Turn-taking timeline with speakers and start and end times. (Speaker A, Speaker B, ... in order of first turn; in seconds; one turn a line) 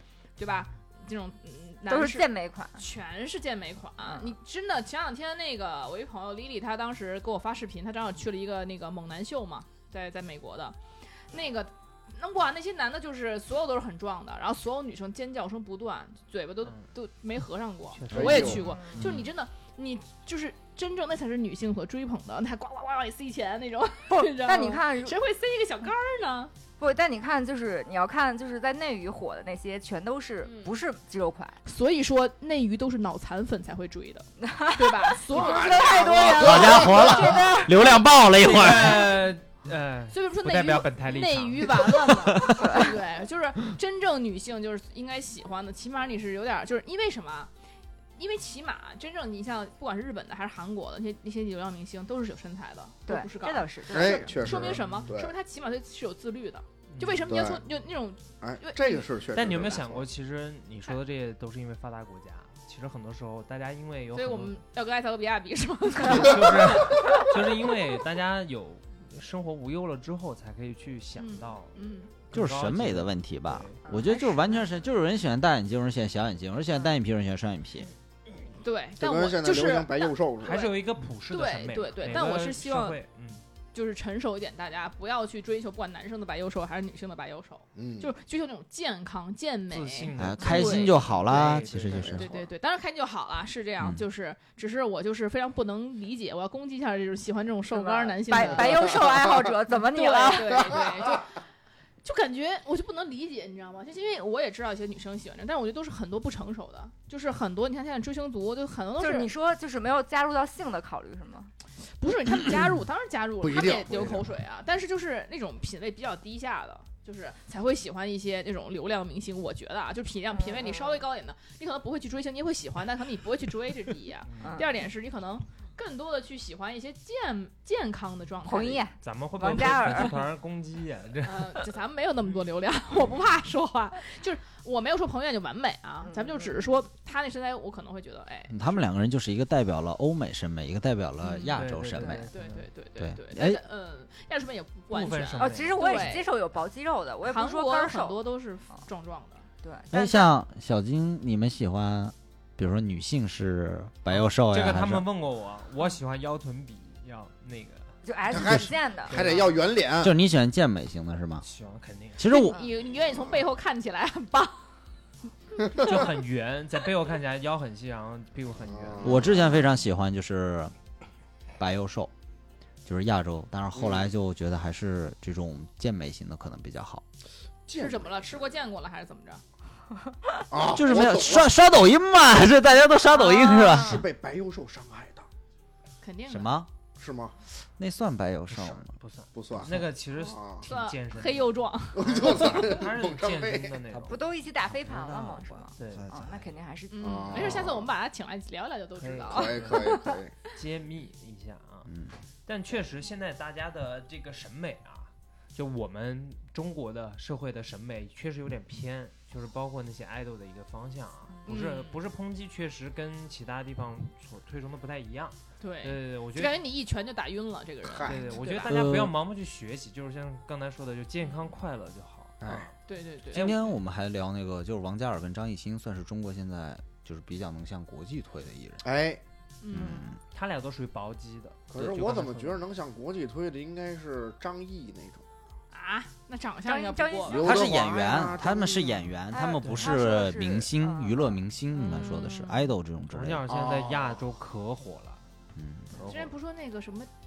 Speaker A: 0.4-26.5
Speaker B: 1.9-2.8
Speaker B: 4.0-4.3
Speaker C: 17.9-19.2
Speaker D: 18.1-18.6
Speaker B: 18.5-19.1
Speaker B: 24.1-25.2
Speaker B: 26.8-31.6
Speaker A: 30.4-30.8
Speaker A: 31.6-39.3
Speaker B: 34.4-37.8
Speaker D: 35.3-37.5
Speaker E: 36.4-39.1
Speaker C: 38.4-42.1
Speaker A: 40.1-47.5
Speaker B: 42.6-43.0
Speaker A: 48.2-59.1
Speaker B: 53.1-54.4
Speaker D: 53.9-55.3
Speaker C: 54.4-55.1
Speaker C: 56.9-57.3
Speaker D: 57.3-57.6
Speaker D: 58.4-60.1
Speaker C: 59.3-64.6
Speaker A: 64.1-67.4
Speaker C: 66.0-71.8
Speaker A: 71.2-72.1
Speaker C: 72.3-73.8
Speaker E: 72.3-77.9
Speaker B: 73.9-74.3
Speaker A: 78.6-83.0
Speaker D: 79.0-80.7
Speaker C: 80.4-83.4
Speaker A: 83.7-91.0
Speaker D: 87.8-88.1
Speaker C: 89.7-92.2
Speaker E: 90.2-92.3
Speaker D: 91.3-92.4
Speaker A: 92.2-101.4
Speaker B: 97.7-100.8
Speaker D: 99.0-99.3
Speaker A: 102.0-109.3
Speaker B: 109.0-111.5
Speaker A: 112.0-128.8
Speaker D: 113.4-114.3
Speaker B: 120.3-121.0
Speaker C: 124.3-124.6
Speaker B: 124.4-124.7
Speaker B: 128.4-130.2
Speaker C: 129.0-131.7
Speaker A: 131.2-138.8
Speaker B: 136.1-136.5
Speaker E: 138.5-142.3
Speaker B: 141.2-142.2
Speaker C: 141.5-142.7
Speaker A: 142.3-146.3
Speaker E: 143.0-143.6
Speaker C: 144.9-146.1
Speaker B: 145.4-148.2
Speaker A: 147.2-149.5
Speaker B: 149.6-150.3
Speaker E: 149.9-155.1
Speaker C: 154.1-158.0
Speaker B: 158.0-159.2
Speaker D: 158.3-160.1
Speaker C: 159.1-159.6
Speaker E: 160.0-161.5
Speaker C: 161.4-162.2
Speaker E: 162.2-162.6
Speaker A: 162.2-164.7
Speaker C: 165.8-169.3
Speaker D: 168.6-169.4
Speaker E: 169.0-170.7
Speaker E: 171.6-172.1
Speaker E: 172.9-177.0
Speaker D: 173.8-174.1
Speaker D: 177.7-178.5
Speaker A: 177.8-179.4
Speaker D: 180.5-181.5
Speaker E: 180.7-184.1
Speaker B: 183.2-184.0
Speaker D: 183.8-185.3
Speaker A: 186.0-186.6
Speaker E: 186.3-186.7
Speaker D: 187.0-187.4
Speaker E: 187.7-188.9
Speaker D: 188.5-188.8
Speaker C: 189.0-194.2
Speaker D: 189.3-190.7
Speaker A: 190.6-192.5
Speaker D: 191.9-193.8
Speaker B: 194.1-197.3
Speaker E: 194.9-196.4
Speaker C: 195.8-196.1
Speaker A: 196.9-200.2
Speaker D: 197.0-197.9
Speaker C: 197.4-197.6
Speaker C: 199.0-200.0
Speaker D: 199.3-200.3
Speaker C: 200.5-201.9
Speaker E: 201.9-202.2
Speaker C: 202.5-216.6
Speaker A: 211.5-212.0
Speaker A: 215.6-218.8
Speaker D: 217.9-218.4
Speaker C: 218.1-222.7
Speaker E: 218.7-219.2
Speaker D: 222.4-222.7
Speaker A: 222.9-223.5
Speaker C: 223.3-223.8
Speaker E: 223.3-228.9
Speaker D: 228.8-229.2
Speaker A: 229.6-230.1
Speaker E: 229.7-230.2
Speaker B: 229.8-230.0
Speaker C: 230.3-232.6
Speaker D: 231.7-235.3
Speaker A: 235.7-237.5
Speaker B: 236.7-237.7
Speaker D: 237.3-239.1
Speaker E: 237.3-243.6
Speaker B: 239.3-241.3
Speaker C: 239.6-239.9
Speaker A: 241.8-242.5
Speaker B: 241.9-242.3
Speaker C: 243.1-245.2
Speaker D: 243.5-244.2
Speaker E: 245.6-246.0
Speaker C: 246.0-246.3
Speaker A: 246.0-247.1